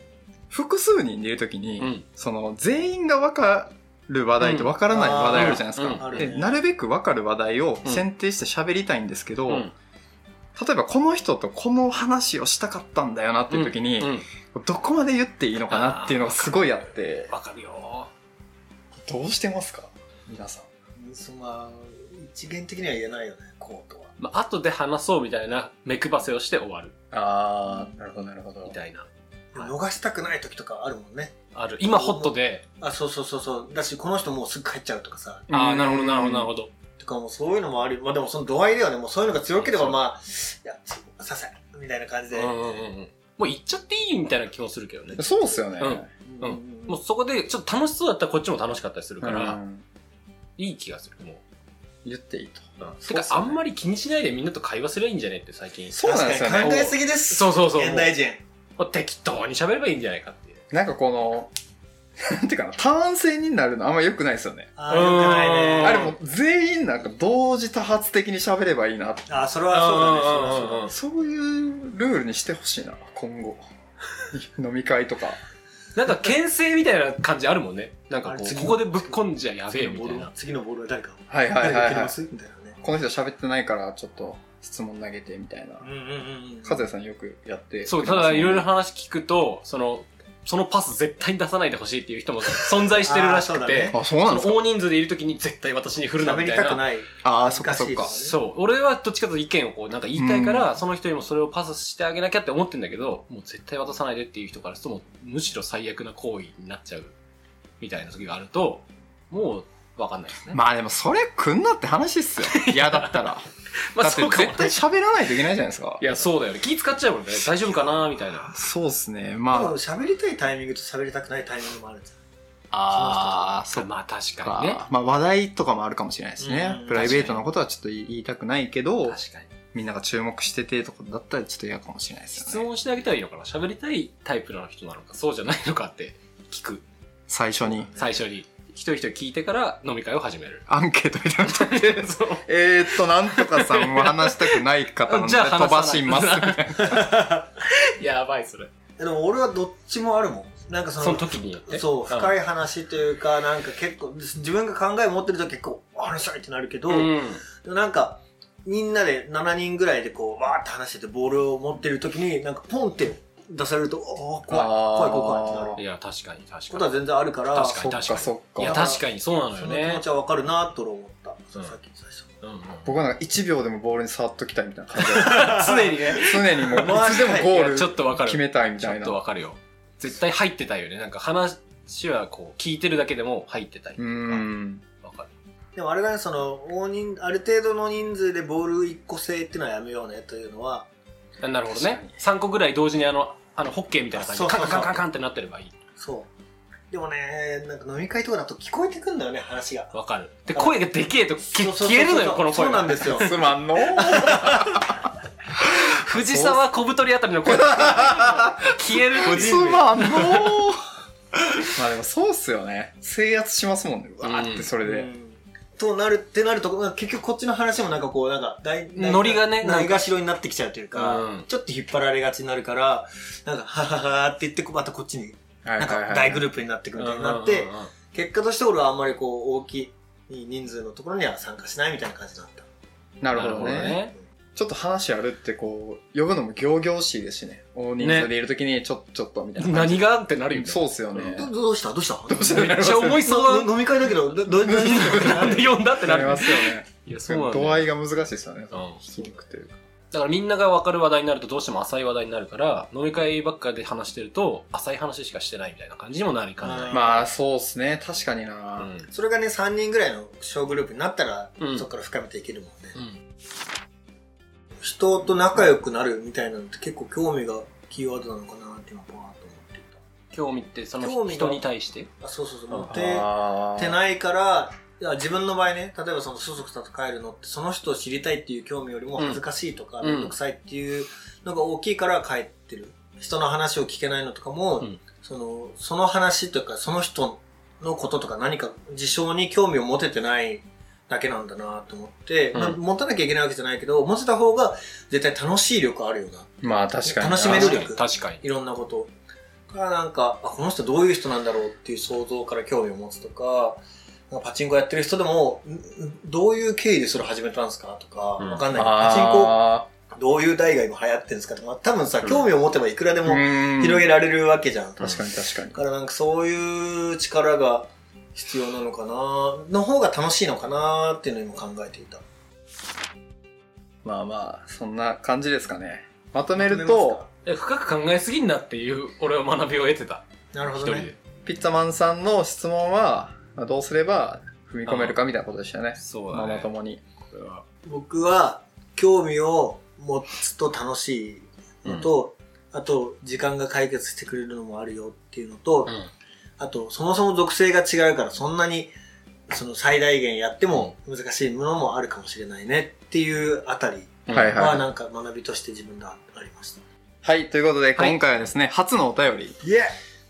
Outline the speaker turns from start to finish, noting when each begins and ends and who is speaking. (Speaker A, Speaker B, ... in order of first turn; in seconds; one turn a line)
Speaker A: 0.5-9.7
Speaker B: 1.8-2.0
Speaker B: 4.4-6.3
Speaker C: 4.9-6.6
Speaker B: 9.5-9.7
Speaker A: 10.6-17.3
Speaker B: 13.5-14.3
Speaker B: 15.7-18.1
Speaker A: 19.0-20.7
Speaker C: 21.0-24.1
Speaker B: 24.2-26.9
Speaker A: 27.1-28.8
Speaker C: 27.7-28.1
Speaker B: 28.6-29.7
Speaker C: 29.5-35.5
Speaker B: 31.5-32.6
Speaker A: 35.5-36.5
Speaker B: 35.5-36.7
Speaker C: 37.0-42.6
Speaker B: 39.6-40.0
Speaker B: 42.3-49.6
Speaker C: 45.2-45.4
Speaker A: 45.2-46.1
Speaker C: 46.3-47.0
Speaker A: 49.2-49.9
Speaker B: 50.6-51.4
Speaker A: 52.0-53.6
Speaker B: 52.8-56.0
Speaker C: 55.9-58.4
Speaker A: 56.0-57.0
Speaker B: 56.6-58.1
Speaker B: 58.8-60.6
Speaker A: 60.7-61.5
Speaker A: 62.2-64.7
Speaker C: 64.8-66.1
Speaker B: 64.9-66.1
Speaker A: 65.8-69.4
Speaker C: 69.3-70.9
Speaker B: 69.7-70.9
Speaker A: 70.9-73.6
Speaker A: 74.3-75.4
Speaker B: 76.0-80.3
Speaker C: 78.3-79.2
Speaker C: 79.7-82.8
Speaker A: 81.3-82.1
Speaker A: 82.8-85.9
Speaker C: 85.8-86.8
Speaker A: 86.6-88.7
Speaker B: 87.8-96.8
Speaker C: 92.8-94.0
Speaker A: 93.9-94.7
Speaker C: 96.2-98.4
Speaker A: 97.2-98.1
Speaker B: 98.0-107.2
Speaker A: 100.1-100.7
Speaker B: 107.8-110.6
Speaker A: 110.5-113.5
Speaker B: 112.4-113.3
Speaker B: 113.9-114.8
Speaker A: 114.0-116.0
Speaker B: 116.0-118.5
Speaker A: 118.5-119.8
Speaker C: 119.5-122.2
Speaker A: 122.7-123.9
Speaker B: 122.8-124.8
Speaker C: 122.9-123.5
Speaker A: 124.4-129.2
Speaker C: 126.4-127.3
Speaker B: 126.9-127.4
Speaker B: 129.1-129.5
Speaker A: 129.7-132.7
Speaker B: 132.4-136.8
Speaker A: 137.3-137.9
Speaker C: 137.6-138.2
Speaker B: 138.0-140.7
Speaker A: 140.7-147.1
Speaker B: 141.4-147.0
Speaker C: 146.8-147.5
Speaker B: 147.6-148.7
Speaker C: 149.0-165.8
Speaker B: 151.0-152.3
Speaker B: 156.9-157.4
Speaker A: 164.5-165.8
Speaker B: 165.8-166.9
Speaker C: 166.7-167.8
Speaker B: 167.5-170.0
Speaker A: 167.6-168.8
Speaker C: 168.6-172.3
Speaker B: 172.4-172.9
Speaker A: 172.8-179.2
Speaker B: 175.0-184.5
Speaker C: 175.1-177.8
Speaker A: 184.0-184.8
Speaker B: 185.0-185.3
Speaker C: 185.8-190.9
Speaker B: 191.4-195.7
Speaker A: 191.7-192.2
Speaker C: 194.1-195.0
Speaker C: 196.0-196.3
Speaker C: 196.9-199.9
Speaker B: 199.9-203.3
Speaker C: 201.5-203.4
Speaker A: 203.2-205.1
Speaker B: 203.9-204.6
Speaker C: 204.0-204.8
Speaker A: 205.6-206.6
Speaker B: 205.7-210.5
Speaker A: 207.4-210.9
Speaker A: 211.8-215.1
Speaker B: 214.2-214.7
Speaker C: 214.8-232.7
Speaker B: 218.9-220.1
Speaker B: 220.9-221.5
Speaker A: 225.6-226.5
Speaker B: 227.0-227.9
Speaker A: 233.2-234.0
Speaker B: 233.3-234.1
Speaker A: 234.6-241.5
Speaker B: 238.0-238.3
Speaker B: 239.6-241.4
Speaker C: 241.3-245.8
Speaker A: 242.3-243.3
Speaker B: 242.5-243.7
Speaker B: 244.5-247.9
Speaker A: 244.6-249.8
Speaker B: 248.7-249.0
Speaker B: 250.1-257.1
Speaker C: 256.6-257.3
Speaker A: 256.9-258.9
Speaker B: 258.8-259.1
Speaker C: 259.1-263.0
Speaker B: 261.6-261.9
Speaker C: 264.8-270.0
Speaker B: 270.3-272.1
Speaker C: 271.0-271.6
Speaker C: 272.2-299.1
Speaker A: 272.9-274.0
Speaker B: 280.0-280.4
Speaker A: 296.6-297.8
Speaker B: 297.4-298.4
Speaker C: 299.7-315.2
Speaker B: 308.4-308.6
Speaker A: 308.7-309.9
Speaker A: 313.2-314.1
Speaker A: 315.0-315.8
Speaker C: 315.7-322.2
Speaker A: 324.0-327.2
Speaker C: 326.5-327.3
Speaker B: 327.5-330.3
Speaker C: 330.5-331.1
Speaker B: 330.8-331.1
Speaker A: 331.4-337.0
Speaker B: 334.9-335.1
Speaker B: 336.0-336.7
Speaker B: 337.3-337.6
Speaker C: 337.8-345.9
Speaker C: 346.6-348.9
Speaker C: 349.5-356.8
Speaker B: 354.3-354.7
Speaker A: 354.3-354.9
Speaker A: 357.2-359.6
Speaker C: 359.6-359.9